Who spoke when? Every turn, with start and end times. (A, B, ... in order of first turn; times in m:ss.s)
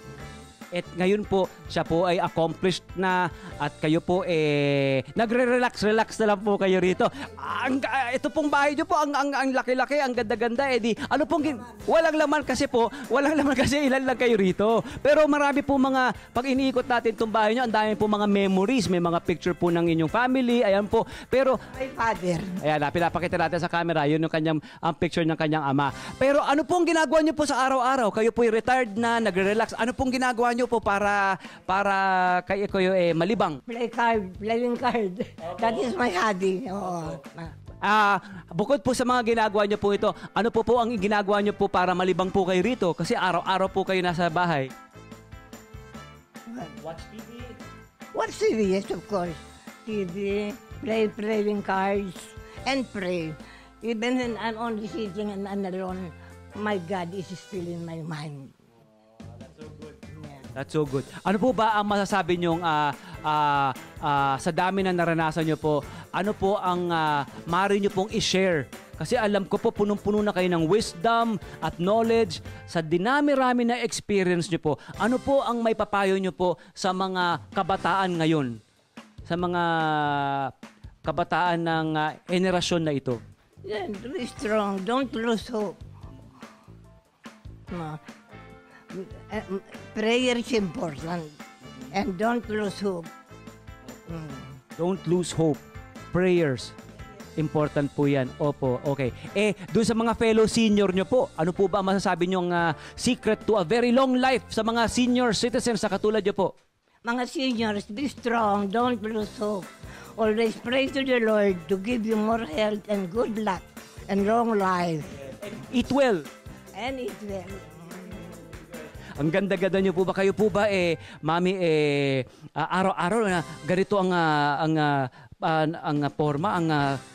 0:00.7-0:21.6 A
0:21.7-0:22.6 B
0:22.6-0:33.6 A
0:33.7-0:37.5 B
0:35.4-0:36.0 A
0:36.9-0:37.2 A
0:37.8-0:44.7 A
0:46.5-0:46.8 B
0:46.8-0:47.6 A
0:48.1-0:58.5 B
1:00.1-1:00.5 B
1:00.6-1:18.6 A
1:19.3-1:20.5 A
1:21.0-1:23.2 A
1:23.6-1:25.8 B
1:27.7-1:28.0 B
1:28.9-1:31.3 B
1:31.9-1:33.1 B
1:34.1-1:34.6 B
1:34.8-1:36.8 A
1:37.4-1:46.5 A
1:47.0-1:55.2 B
1:55.2-1:56.3 A
1:56.8-1:58.6 B
1:59.2-2:07.0 A